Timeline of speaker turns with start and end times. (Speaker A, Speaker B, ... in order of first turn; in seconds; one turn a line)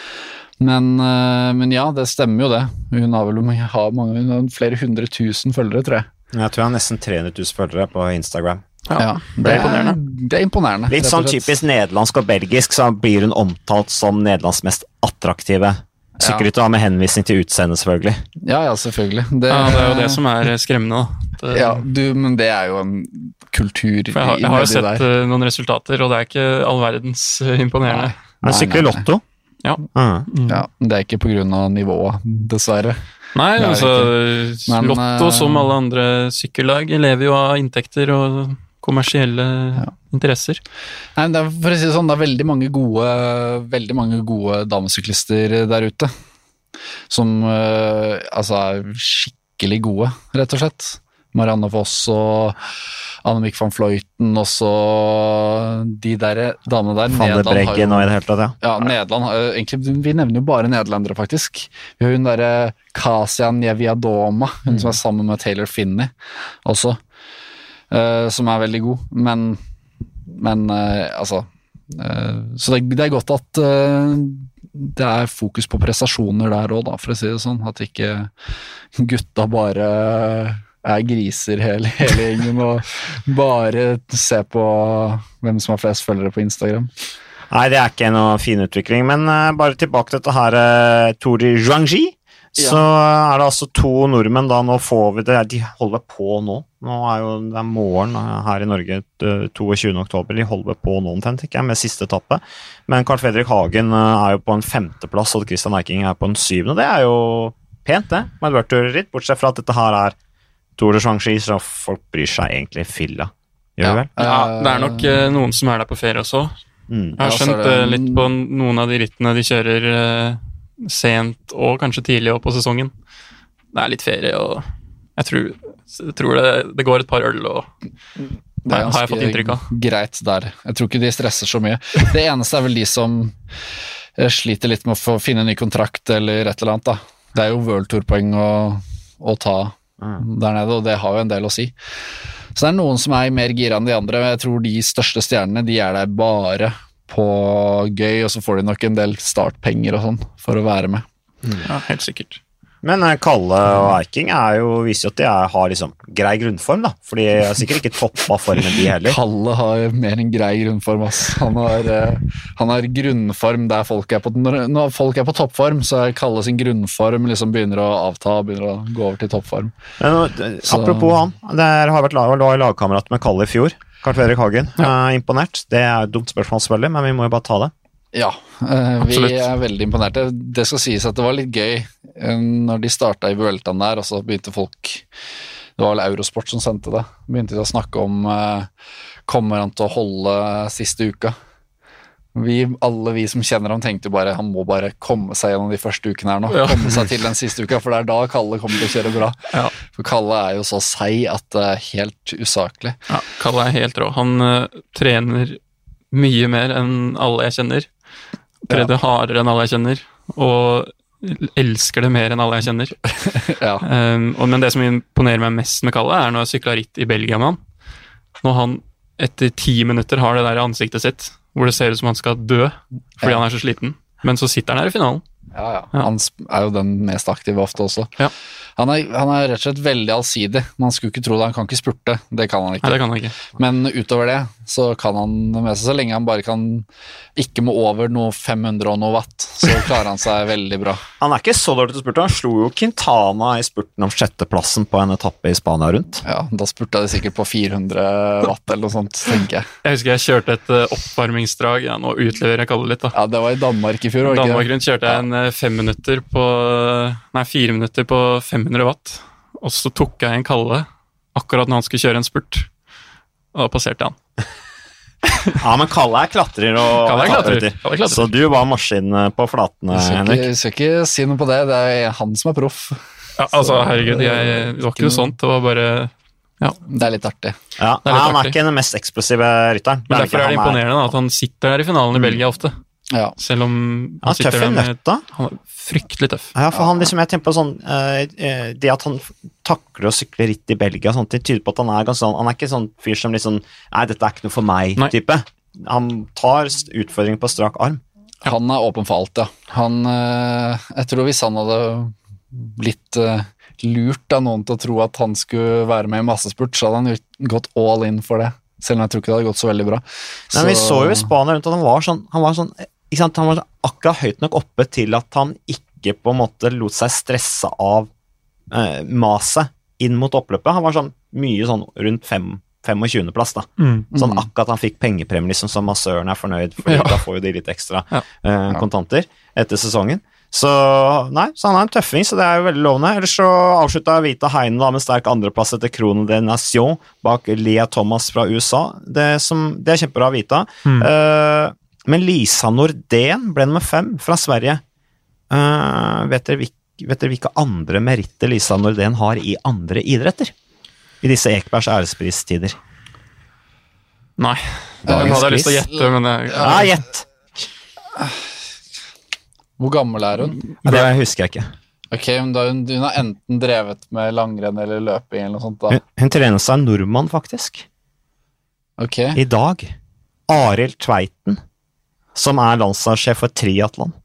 Speaker A: 0.6-6.1
Speaker B: 6.3-8.6
Speaker C: 8.9-10.0
Speaker A: 9.0-11.6
Speaker B: 9.4-9.7
Speaker B: 10.9-18.2
Speaker A: 16.2-16.4
Speaker A: 18.4-20.2
Speaker C: 19.5-21.8
Speaker A: 21.5-25.0
Speaker C: 24.1-28.1
Speaker A: 27.9-29.1
Speaker B: 28.4-29.2
Speaker C: 29.6-30.6
Speaker B: 29.9-30.3
Speaker A: 30.4-33.0
Speaker C: 33.3-40.6
Speaker A: 33.5-34.1
Speaker A: 34.7-35.7
Speaker A: 41.1-46.1
Speaker A: 47.1-52.6
Speaker A: 53.2-58.1
Speaker B: 57.1-58.5
Speaker A: 58.6-66.1
Speaker A: 66.6-67.0
Speaker A: 67.9-69.6
Speaker A: 70.3-78.3
Speaker A: 78.9-86.9
Speaker B: 87.5-110.2
Speaker B: 110.8-114.1
Speaker A: 113.8-115.2
Speaker C: 114.2-116.5
Speaker B: 116.9-117.2
Speaker C: 117.2-122.9
Speaker A: 117.2-118.3
Speaker C: 123.7-127.7
Speaker A: 128.6-133.4
Speaker C: 128.7-129.7
Speaker A: 134.2-141.7
Speaker A: 142.5-151.1
Speaker C: 151.7-152.4
Speaker B: 152.8-159.2
Speaker A: 159.0-169.7
Speaker B: 170.0-177.7
Speaker A: 170.6-171.2
Speaker A: 178.1-185.0
Speaker C: 179.0-179.4
Speaker A: 185.8-188.7
Speaker A: 189.3-191.3
Speaker A: 192.3-203.0
Speaker C: 196.5-196.9
Speaker C: 203.1-205.6
Speaker C: 206.1-207.9
Speaker C: 208.7-213.0
Speaker A: 213.2-213.8
Speaker C: 213.8-217.6
Speaker C: 218.4-225.2
Speaker A: 225.5-228.1
Speaker A: 228.8-241.0
Speaker C: 232.8-233.3
Speaker B: 241.2-246.2
Speaker A: 246.2-249.7
Speaker C: 249.8-253.1
Speaker A: 253.1-254.7
Speaker C: 254.2-262.7
Speaker C: 263.5-264.1
Speaker B: 265.6-270.5
Speaker C: 266.9-268.3
Speaker A: 269.9-275.3
Speaker C: 273.4-276.8
Speaker A: 276.9-277.6
Speaker B: 277.8-280.8
Speaker C: 278.0-278.6
Speaker C: 280.1-282.8
Speaker C: 283.4-286.5
Speaker B: 284.2-285.2
Speaker B: 286.5-298.0
Speaker A: 298.4-311.3
Speaker B: 310.5-318.1
Speaker B: 318.7-344.8
Speaker C: 323.8-324.1
Speaker A: 324.1-324.4
Speaker C: 326.8-327.2
Speaker B: 345.5-350.5
Speaker B: 351.2-352.8
Speaker C: 354.4-356.9
Speaker B: 355.0-355.8
Speaker A: 355.1-355.4
Speaker A: 356.6-356.8
Speaker B: 356.6-357.2
Speaker A: 358.1-358.5
Speaker A: 359.8-360.7
Speaker B: 360.8-361.7
Speaker A: 362.1-366.0
Speaker B: 365.9-367.9
Speaker A: 369.0-369.4
Speaker B: 369.3-369.9
Speaker B: 370.5-371.6
Speaker B: 372.3-374.1